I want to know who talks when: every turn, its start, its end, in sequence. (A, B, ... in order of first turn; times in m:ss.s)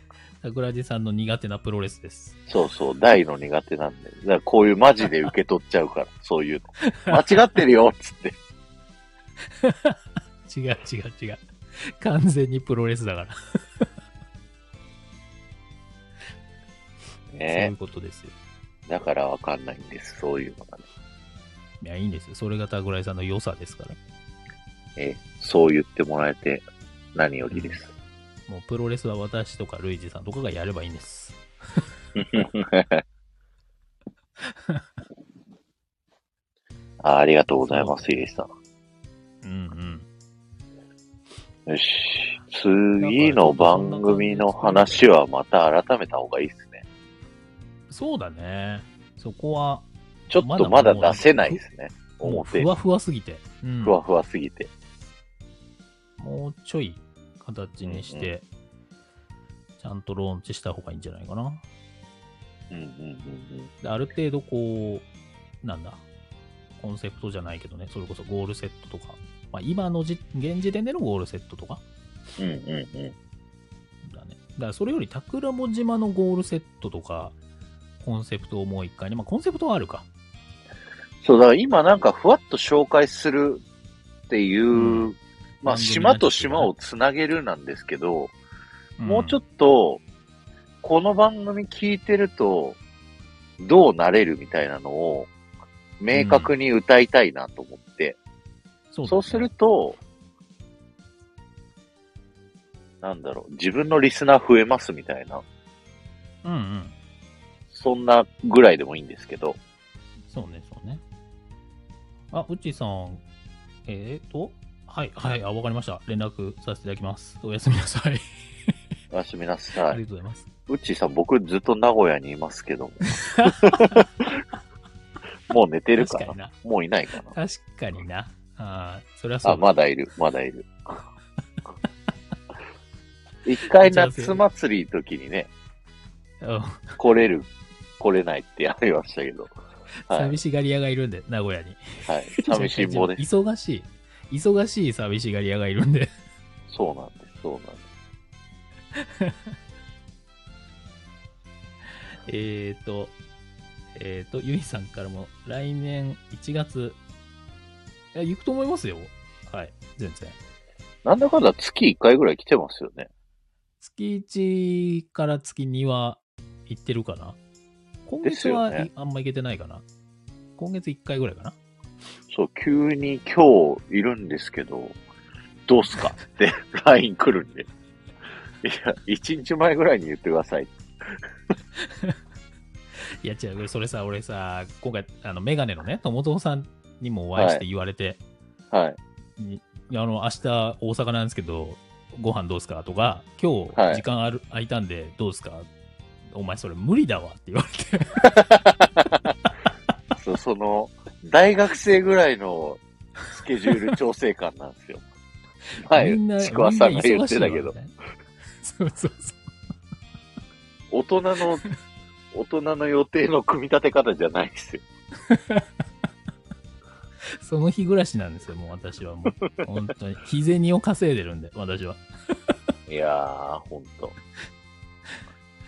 0:00.4-0:02.4 A
0:02.5-0:08.4 B
0:06.8-0:07.2 A
0:09.6-0:13.9 A
0:17.3-0:17.7 B
0:17.4-0:18.3 A
0:18.9-0:20.8 B
0:21.8-0:24.0 A
0:25.0-0:27.9 B
0:27.5-0:27.8 A
0:28.5-0:31.4 A
0:32.2-0:33.0 B
0:34.4-0:34.8 A
0:37.0-0:38.5 B
0:37.6-0:38.2 A
0:39.4-0:40.1 A
0:41.7-0:46.8 B
0:43.0-0:45.1 A
0:47.9-0:51.6 A
0:50.3-0:52.7 B
0:52.2-0:54.0 A
0:53.8-0:54.7 B
0:56.2-0:58.4 A
0:57.8-0:58.3 B
0:59.8-1:01.6 A
1:02.7-1:03.7 B
1:03.8-1:05.1 A
1:05.6-1:06.0 A
1:06.8-1:11.8 A
1:12.4-1:13.1 B
1:14.0-1:17.4 A
1:18.0-1:20.1 A
1:21.2-1:23.6 B
1:24.3-1:28.3 B
1:24.7-1:25.1 A
1:25.6-1:26.7 A
1:29.0-1:29.4 A
1:29.0-1:30.0 B
1:30.8-1:32.8 B
1:33.6-1:35.3 B
1:36.0-1:38.2 B
1:36.1-1:36.5 A
1:38.9-1:39.5 A
1:39.0-1:40.0 B
1:43.0-1:45.4 B
1:46.4-1:46.9 A
1:47.7-1:49.6 B
1:50.3-1:51.0 A
1:52.3-1:53.2 A
1:53.8-1:58.7 A
1:59.1-2:00.0 B
1:59.9-2:00.5 A
2:00.7-2:04.3 B
2:03.1-2:04.0 A
2:05.5-2:07.3 B
2:06.0-2:06.5 A
2:07.3-2:09.6 A
2:09.4-2:11.0 B
2:13.4-2:15.5 B
2:13.8-2:14.4 A
2:16.4-2:17.0 A
2:17.0-2:19.5 B
2:19.9-2:26.1 A
2:20.1-2:20.4 B
2:22.1-2:23.2 B
2:26.7-2:27.8 B
2:28.9-2:29.5 A
2:32.2-2:33.2 A
2:33.9-2:37.0 A
2:38.1-2:40.4 A
2:41.0-2:43.1 B
2:43.8-2:47.4 A
2:48.0-2:49.8 A
2:48.2-2:48.9 B
2:50.6-2:51.6 A
2:52.3-2:55.0 B
2:55.7-2:57.7 B
2:58.6-3:01.2 B
3:01.8-3:02.2 A
3:03.2-3:08.2 A
3:07.4-3:07.6 B
3:08.7-3:09.0 B
3:09.4-3:15.7 A
3:13.7-3:14.0 B
3:16.3-3:18.5 A
3:18.4-3:19.1 B
3:20.2-3:25.0 B
3:25.8-3:27.7 B
3:25.9-3:27.9 A
3:28.6-3:29.4 A
3:30.9-3:31.6 B
3:32.3-3:34.8 B
3:35.3-3:35.6 A
3:37.3-3:42.5 A
3:42.9-3:44.1 B